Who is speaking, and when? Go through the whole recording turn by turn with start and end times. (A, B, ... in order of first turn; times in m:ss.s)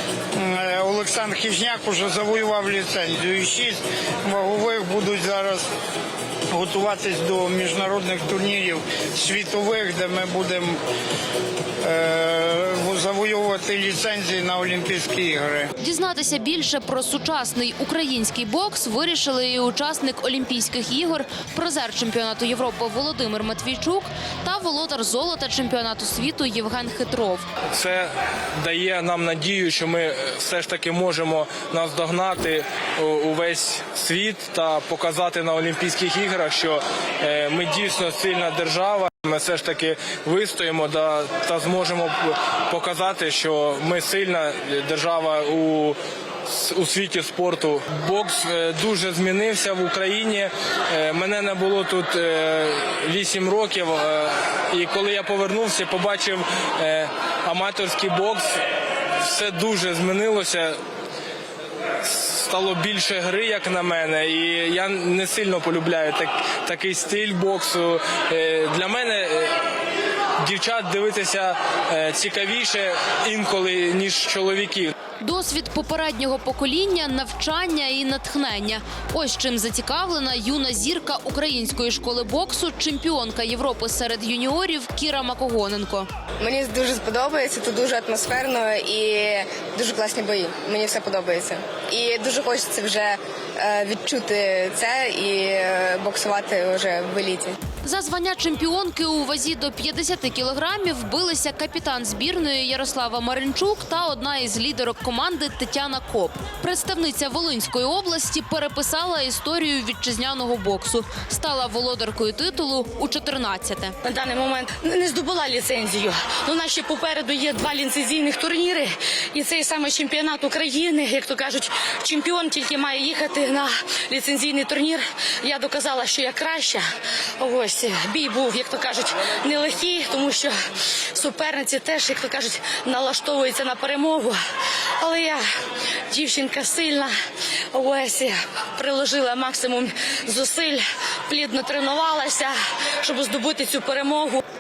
0:00.3-0:05.7 A
0:06.5-0:10.8 A
0:11.8-0:15.7 A
0:15.8-0:27.4 B
0:27.7-0:46.0 C
0:46.5-0:58.5 C
0:59.2-1:00.8 C
1:02.0-1:09.5 C
1:10.4-1:14.9 C
1:15.2-1:26.1 B
1:26.4-1:37.6 D
1:37.8-1:53.9 B
1:54.0-2:06.8 E
2:07.4-2:10.5 E
2:11.1-2:14.4 E
2:15.0-2:15.4 E
2:16.1-2:17.1 E
2:17.7-2:24.4 E